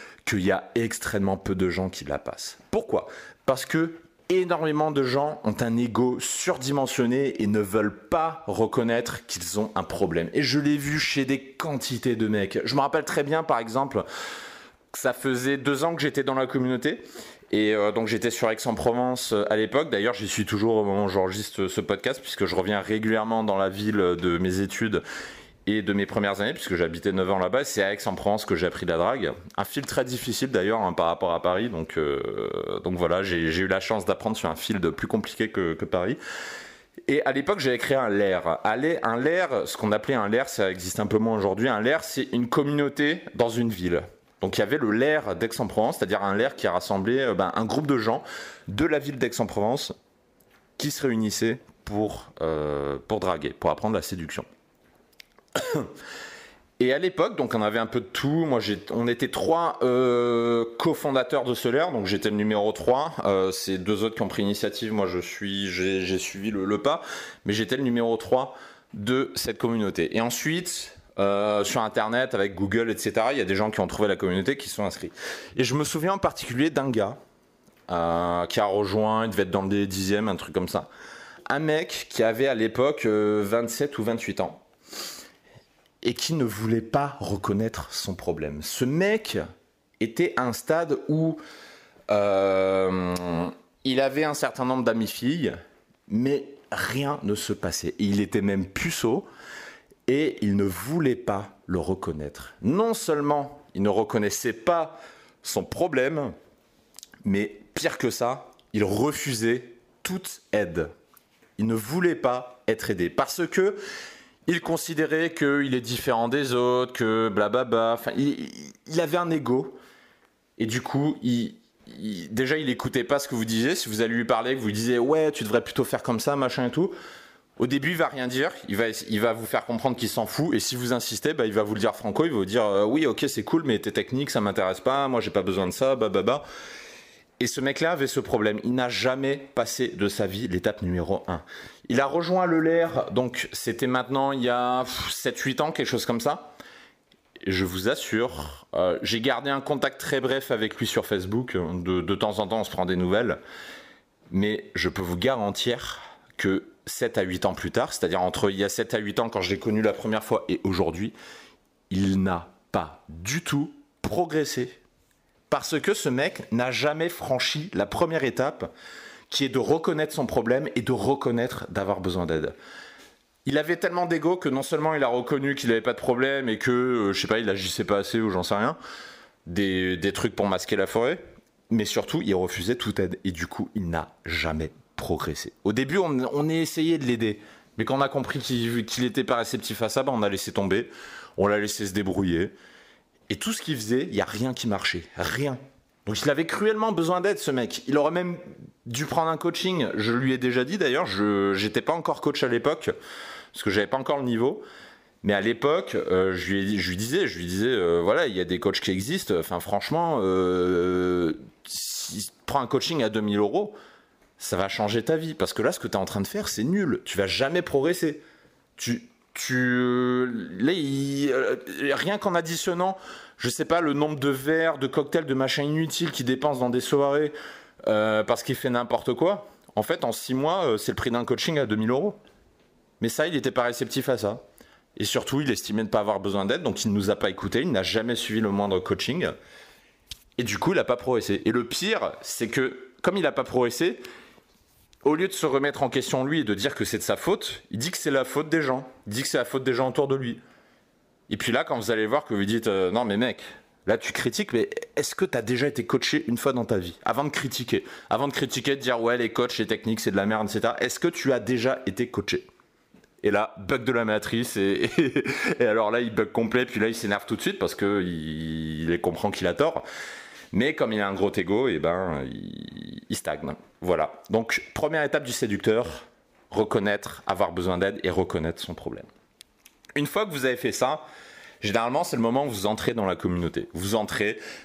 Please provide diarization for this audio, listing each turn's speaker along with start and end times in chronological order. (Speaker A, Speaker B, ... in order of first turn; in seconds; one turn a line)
Speaker A: 0.2-14.1
Speaker A: 14.9-25.0
Speaker A: 25.7-36.2
Speaker A: 37.1-49.9
Speaker A: 50.8-54.5
Speaker A: 55.6-55.9
Speaker A: 56.8-77.2
Speaker A: 77.9-80.9
Speaker A: 81.5-84.6
Speaker A: 86.0-89.4
Speaker A: 90.0-91.4
Speaker A: 92.1-95.5
Speaker A: 96.1-99.3
Speaker A: 100.1-106.3
Speaker A: 107.2-110.9
Speaker A: 111.6-113.8
Speaker A: 114.5-119.8
Speaker A: 120.6-126.9
Speaker A: 127.6-136.4
Speaker A: 137.4-146.5
Speaker A: 147.4-153.4
Speaker A: 154.3-161.2
Speaker A: 161.9-164.8
Speaker A: 165.5-168.7
Speaker A: 169.3-172.5
Speaker A: 173.4-178.8
Speaker A: 179.5-192.5
Speaker A: 193.3-202.9
Speaker A: 203.5-204.6
Speaker A: 205.2-213.8
Speaker A: 214.4-218.2
Speaker A: 218.8-227.3
Speaker A: 227.9-232.2
Speaker A: 233.0-234.4
Speaker A: 235.0-239.3
Speaker A: 240.4-244.0
Speaker A: 245.0-250.4
Speaker A: 251.3-262.5
Speaker A: 263.2-269.8
Speaker A: 270.5-279.1
Speaker A: 279.9-281.0
Speaker A: 281.6-284.4